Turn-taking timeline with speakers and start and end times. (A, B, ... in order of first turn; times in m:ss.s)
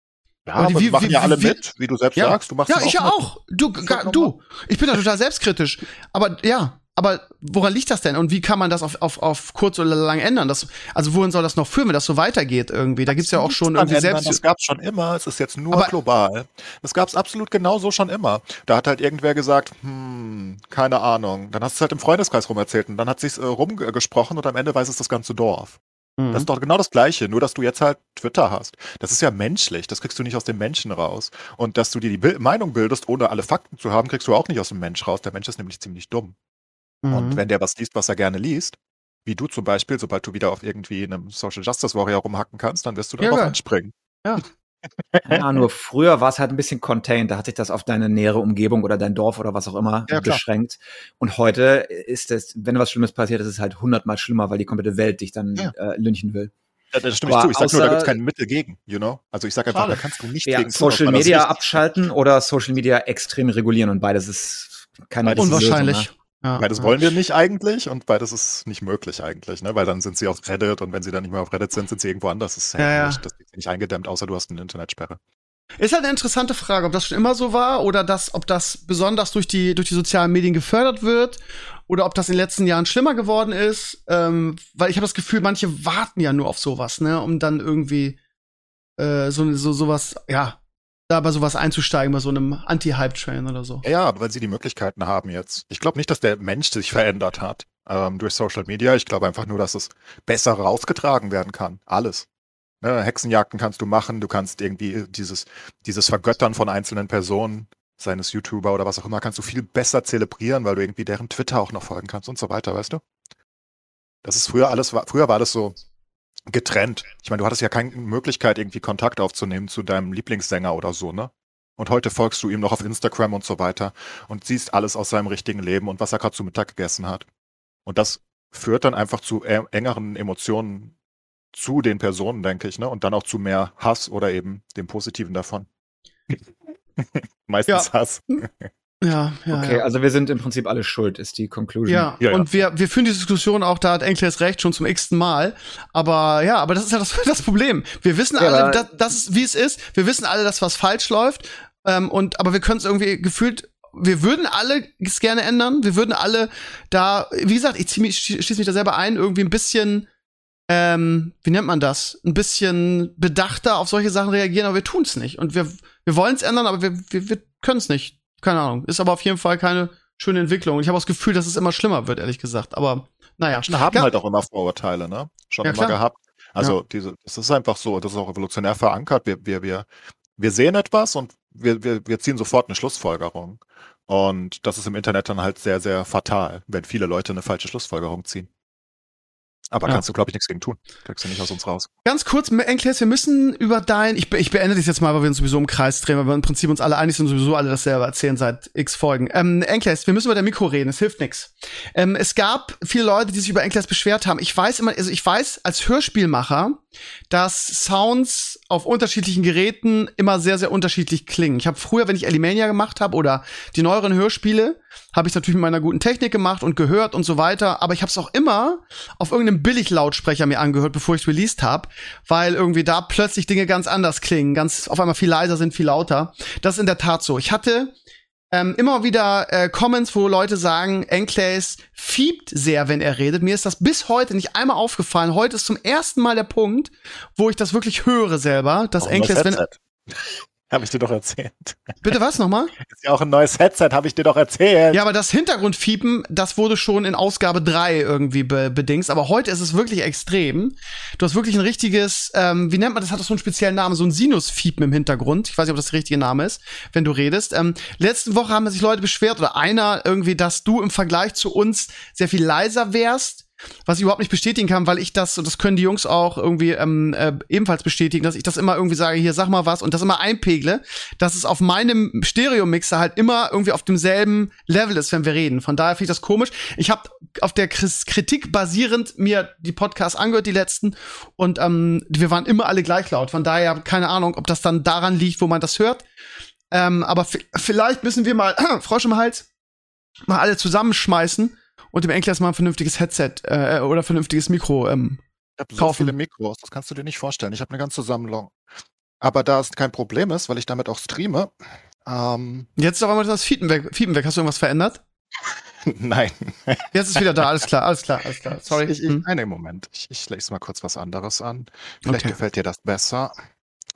0:00.4-0:04.3 A
0:00.6-0:01.6 B
0:02.2-0:14.4 B
0:13.1-0:25.8 A
0:26.2-0:26.5 B
0:26.3-0:36.4 A
0:37.0-0:37.4 B
0:37.1-0:43.9 A
0:43.2-0:43.6 B
0:45.1-0:45.6 A
0:45.3-0:56.5 C
0:50.1-0:50.4 A
0:56.9-1:02.0 A
0:57.2-0:58.2 C
0:59.7-1:00.0 B
1:00.4-1:06.1 C
1:05.3-1:05.8 A
1:05.3-1:06.9 B
1:06.6-1:15.2 A
1:12.8-1:13.2 B
1:15.8-1:28.2 B
1:29.0-1:33.8 B
1:33.8-1:42.3 A
1:42.8-1:53.0 A
1:54.2-1:55.8 A
1:56.5-2:07.2 A
2:07.8-2:10.9 A
2:11.5-2:15.7 A
2:17.0-2:18.7 A
2:19.0-2:19.8 B
2:19.5-2:22.1 C
2:21.9-2:40.1 B
2:22.2-2:22.5 A
2:28.4-2:28.8 C
2:40.7-2:54.1 B
2:53.5-2:59.9 A
2:55.6-2:56.0 B
3:00.4-3:08.5 A
3:09.7-3:11.9 A
3:12.0-3:47.9 B
3:48.5-3:59.6 B
3:59.0-4:02.0 A
4:02.0-4:02.7 B
4:02.8-4:05.0 A
4:04.9-4:46.0 B
4:46.7-4:49.5 B
4:50.3-4:55.2 B
4:55.6-4:58.6 A
4:55.8-4:56.1 B
4:59.2-5:01.5 A
5:02.0-5:02.7 A
5:02.8-5:05.0 B
5:05.8-5:06.9 A
5:06.9-5:09.2 B
5:08.7-5:13.4 A
5:12.0-5:12.3 B